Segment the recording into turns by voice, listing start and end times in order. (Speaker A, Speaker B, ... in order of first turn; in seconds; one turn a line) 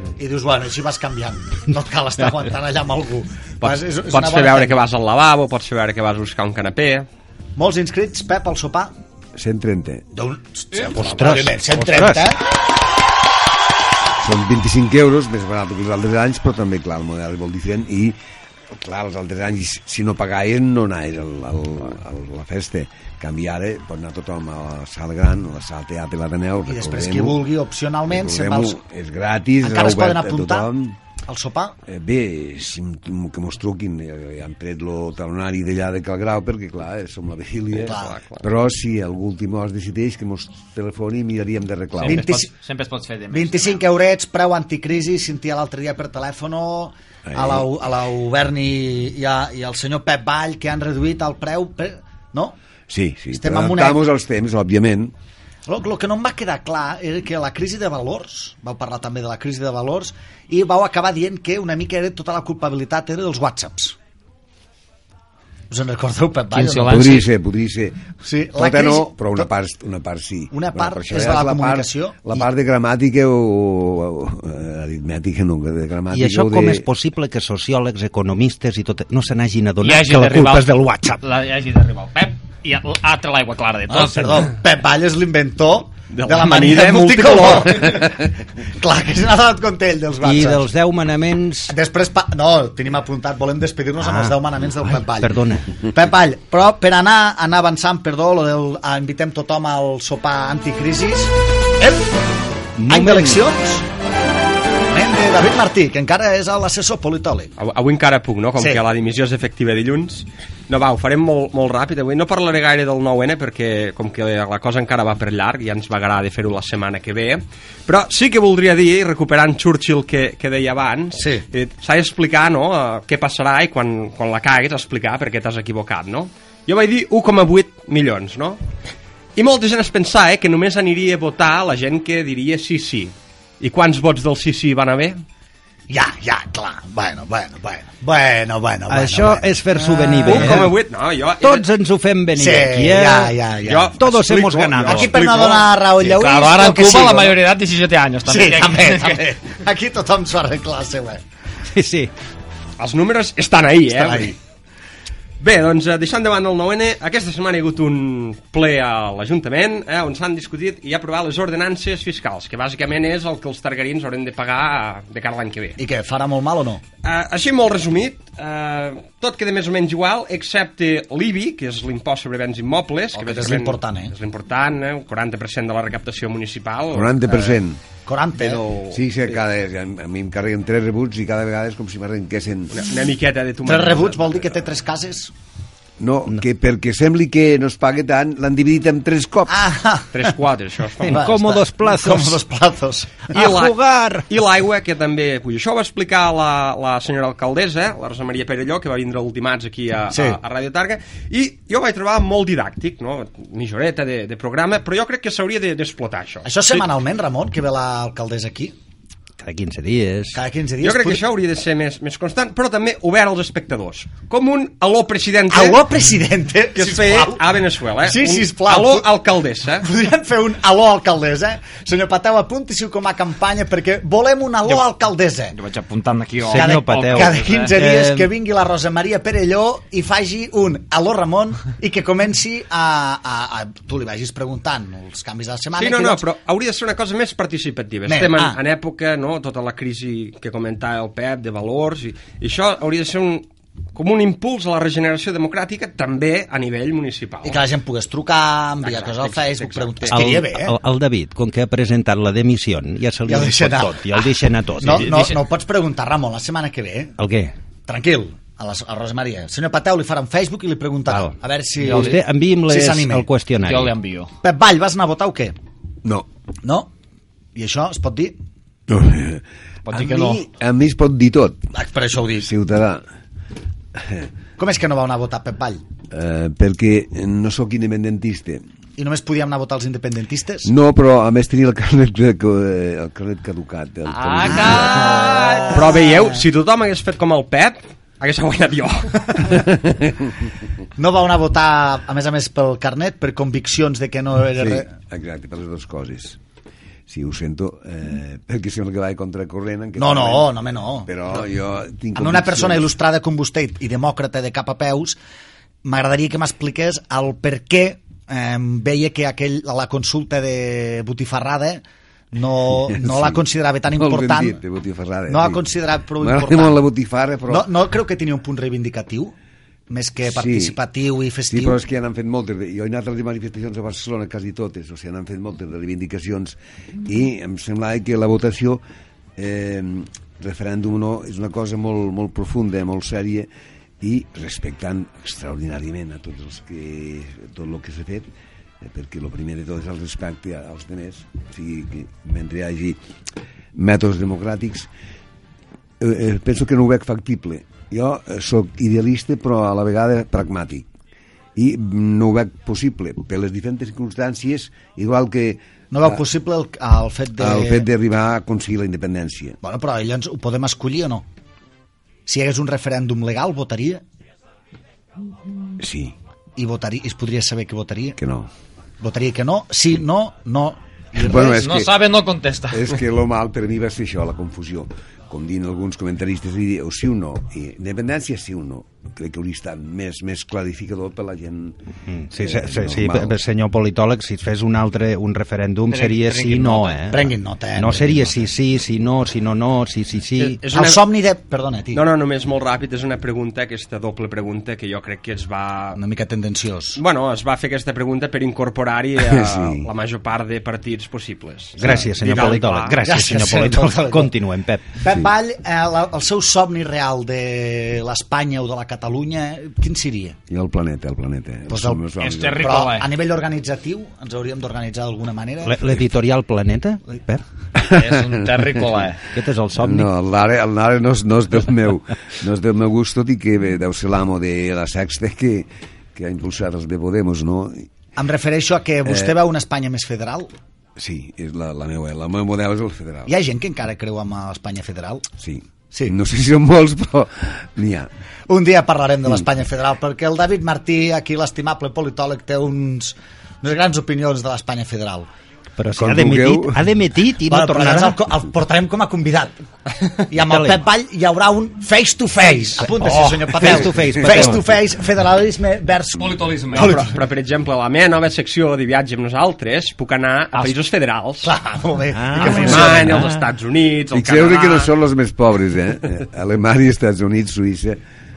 Speaker A: 0.2-4.8
Speaker B: 3.6-7.1
Speaker A: 7.6-8.9
Speaker C: 9.4-10.1
Speaker A: 10.1-12.4
Speaker D: 10.9-12.2
Speaker C: 14.2-18.2
Speaker C: 18.7-27.5
Speaker A: 26.7-28.8
Speaker C: 28.1-31.0
Speaker A: 29.6-30.7
Speaker A: 31.3-31.8
Speaker C: 31.9-42.3
Speaker B: 37.8-38.4
Speaker A: 37.9-38.2
Speaker E: 42.0-43.9
Speaker A: 42.0-42.5
Speaker A: 43.3-52.6
Speaker C: 47.3-47.7
Speaker C: 52.9-55.1
Speaker A: 53.3-54.0
Speaker A: 55.7-64.0
Speaker A: 65.7-67.2
Speaker E: 66.5-67.3
Speaker C: 66.9-76.9
Speaker A: 68.2-69.5
Speaker A: 70.5-72.2
Speaker D: 76.1-81.2
Speaker E: 79.8-84.5
Speaker A: 83.9-90.7
Speaker B: 86.1-88.0
Speaker D: 90.2-91.7
Speaker A: 91.7-102.2
Speaker D: 94.0-95.8
Speaker D: 102.8-103.4
Speaker A: 102.9-103.9
Speaker A: 104.9-107.5
Speaker B: 107.6-128.6
Speaker A: 121.2-121.5
Speaker B: 129.4-135.2
Speaker A: 135.9-140.8
Speaker D: 138.9-140.8
Speaker B: 140.2-141.7
Speaker D: 141.4-143.3
Speaker A: 142.3-143.9
Speaker B: 143.7-145.7
Speaker D: 144.0-145.2
Speaker A: 144.8-147.4
Speaker E: 146.0-149.3
Speaker A: 148.3-151.2
Speaker D: 151.7-152.1
Speaker B: 152.8-154.4
Speaker A: 153.9-154.3
Speaker B: 155.4-165.8
Speaker A: 165.8-166.8
Speaker B: 167.0-177.5
Speaker A: 173.1-174.1
Speaker C: 176.9-177.8
Speaker A: 178.1-178.6
Speaker B: 178.3-179.3
Speaker C: 178.9-182.9
Speaker B: 182.7-184.4
Speaker A: 183.7-185.3
Speaker C: 186.0-189.6
Speaker A: 189.5-190.3
Speaker B: 190.1-191.2
Speaker D: 191.0-192.4
Speaker A: 191.1-193.3
Speaker B: 193.3-193.8
Speaker D: 193.3-194.3
Speaker B: 194.3-206.9
Speaker A: 200.1-200.4
Speaker A: 206.4-208.8
Speaker D: 209.4-210.4
Speaker A: 210.3-211.2
Speaker B: 210.8-215.8
Speaker A: 215.5-217.4
Speaker B: 216.8-219.9
Speaker A: 218.0-219.2
Speaker A: 219.8-225.6
Speaker E: 225.5-227.8
Speaker A: 226.5-236.3
Speaker D: 226.5-228.3
Speaker B: 235.8-247.6
Speaker A: 238.1-238.6
Speaker A: 247.4-250.8
Speaker B: 248.8-250.3
Speaker D: 250.1-255.2
Speaker A: 253.3-257.1
Speaker E: 254.8-255.4
Speaker D: 257.2-257.5
Speaker A: 257.9-263.3
Speaker D: 261.1-263.9
Speaker E: 261.9-262.1
Speaker E: 263.6-264.3
Speaker A: 264.4-265.6
Speaker A: 266.6-266.9
Speaker A: 267.6-268.4
Speaker C: 268.9-271.6
Speaker E: 269.9-270.4
Speaker A: 271.7-272.5
Speaker C: 272.4-273.0
Speaker C: 273.9-274.3
Speaker A: 274.6-275.8
Speaker C: 276.1-278.6
Speaker A: 279.0-280.7
Speaker C: 280.6-285.2
Speaker E: 284.1-285.8
Speaker A: 284.4-286.3
Speaker B: 285.6-289.6
Speaker C: 289.7-290.3
Speaker A: 291.0-294.9
Speaker C: 294.6-296.4
Speaker C: 297.1-300.5
Speaker A: 300.0-301.4
Speaker C: 301.1-302.9
Speaker A: 302.1-305.2
Speaker A: 305.8-314.6
Speaker C: 312.8-315.7
Speaker A: 315.3-316.8
Speaker C: 316.2-317.7
Speaker A: 317.5-319.4
Speaker A: 319.9-321.8
Speaker C: 320.2-320.8
Speaker C: 321.5-328.8
Speaker C: 329.4-333.5
Speaker C: 334.0-338.3
Speaker C: 338.8-343.0
Speaker C: 343.8-344.9
Speaker C: 346.0-350.9
Speaker C: 351.6-356.2
Speaker A: 355.9-357.9
Speaker C: 357.4-359.6
Speaker A: 359.6-361.3
Speaker A: 362.3-364.0
Speaker C: 365.8-366.2
Speaker A: 366.6-368.2
Speaker C: 368.2-368.5
Speaker A: 369.0-371.6
Speaker C: 371.1-371.9
Speaker E: 371.4-373.0
Speaker C: 372.7-381.8
Speaker D: 382.1-390.6
Speaker C: 382.4-383.4
Speaker E: 385.9-387.0
Speaker A: 387.1-388.5
Speaker B: 390.4-391.0
Speaker A: 390.7-392.1
Speaker B: 391.9-396.0
Speaker A: 396.0-397.0
Speaker B: 397.0-403.1
Speaker C: 399.2-399.9
Speaker D: 401.8-404.9
Speaker A: 403.0-404.3
Speaker A: 405.0-410.4
Speaker C: 410.5-412.8
Speaker A: 411.7-412.1
Speaker E: 412.2-413.1
Speaker A: 412.6-416.1
Speaker D: 415.6-417.4
Speaker C: 417.8-418.7
Speaker E: 417.9-419.2
Speaker D: 419.3-420.1
Speaker C: 419.8-427.9
Speaker A: 428.2-430.5
Speaker C: 429.1-429.4
Speaker C: 431.0-433.3
Speaker A: 433.3-435.3
Speaker C: 435.4-438.1
Speaker A: 438.5-445.3
Speaker D: 445.8-448.2
Speaker C: 446.0-446.9
Speaker A: 447.5-457.2
Speaker D: 450.4-450.8
Speaker D: 453.5-454.6
Speaker E: 456.2-457.0
Speaker B: 456.7-461.5
Speaker A: 461.4-463.3
Speaker D: 462.1-463.4
Speaker B: 462.4-464.9
Speaker C: 464.1-468.0